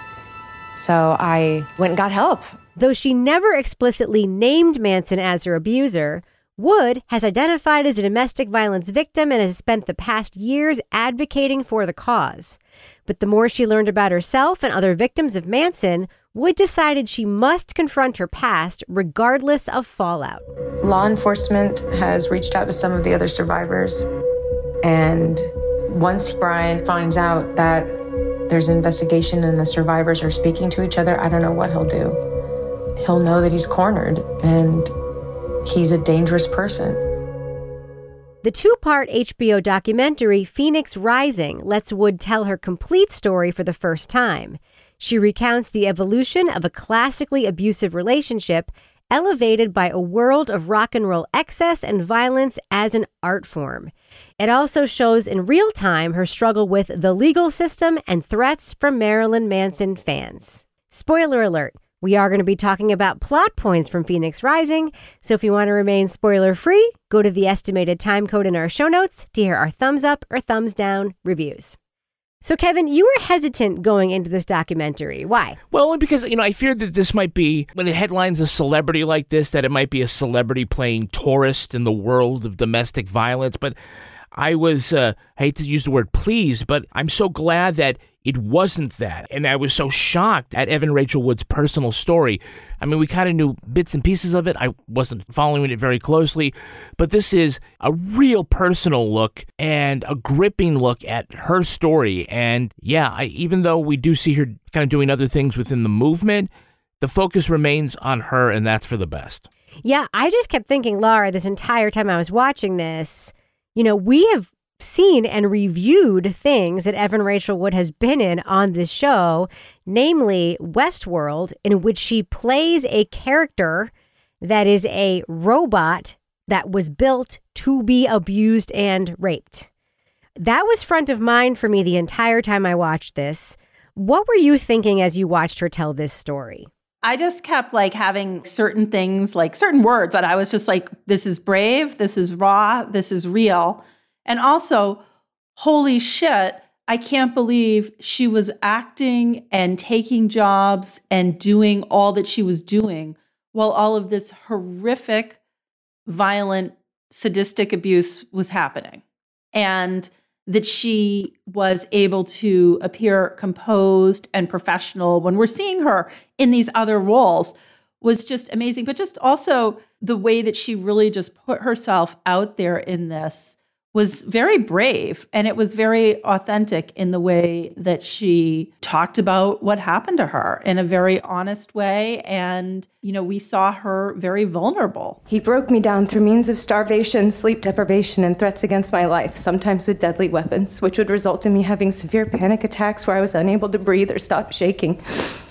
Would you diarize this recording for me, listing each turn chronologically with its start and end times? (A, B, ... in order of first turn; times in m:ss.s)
0:00.8-0:02.6 A
0:02.8-0:20.5 B
0:20.8-0:24.1 A
0:24.8-0:32.2 A
0:33.0-0:34.9 A
0:35.6-0:37.0 A
0:38.4-1:11.8 B
1:12.4-1:15.6 B
1:15.7-1:23.8 C
1:24.3-1:49.5 C
1:49.8-2:09.7 B
2:10.4-2:16.7 B
2:17.0-2:25.0 D
2:25.6-2:35.4 D
2:36.1-2:39.0 D
2:39.5-3:05.2 D
3:05.3-3:15.0 E